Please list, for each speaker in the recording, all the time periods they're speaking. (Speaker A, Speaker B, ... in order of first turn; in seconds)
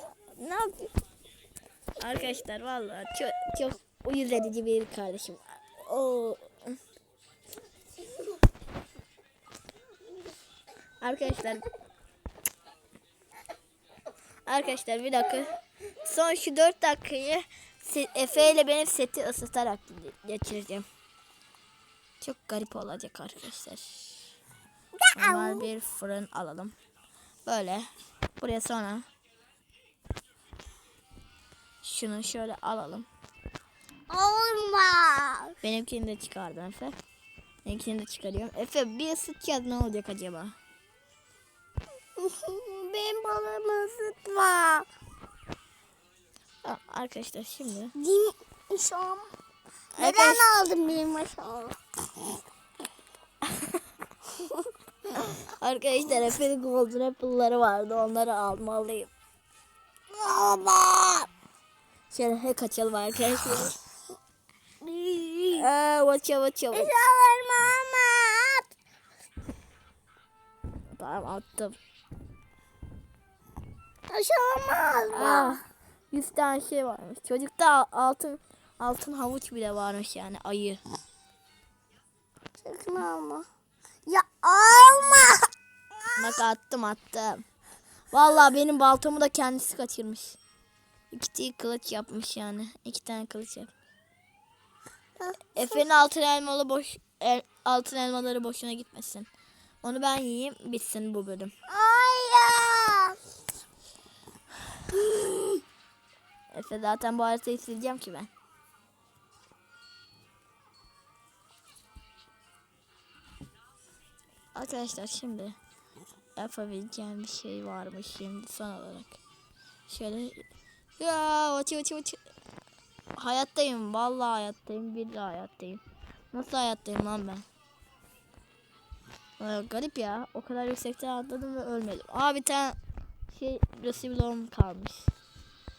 Speaker A: 0.3-0.9, 2.0-6.8, 11.0-11.7, 14.5-20.9, 22.2-24.3, 25.1-26.7, 27.4-27.9, 28.4-29.1, 31.8-33.1, 35.6-37.0, 37.6-40.5, 46.6-47.9, 50.0-50.4, 55.3-59.1, 62.1-63.8, 65.5-66.9, 71.0-71.8, 75.1-80.8, 86.2-87.4, 88.1-90.4, 91.1-93.7, 95.5-99.3, 99.8-101.5, 106.5-108.3, 114.5-115.5, 116.3-119.2, 119.9-120.4, 121.0-122.2, 123.2-127.4, 129.4-132.8, 133.3-135.1
Speaker B: 25.0-25.7, 34.1-35.6, 42.2-44.9, 47.9-49.3, 50.0-51.8, 60.1-61.3, 64.8-65.7, 66.7-68.7, 74.1-75.6, 82.6-83.5, 84.0-85.5, 95.2-95.8, 101.7-103.2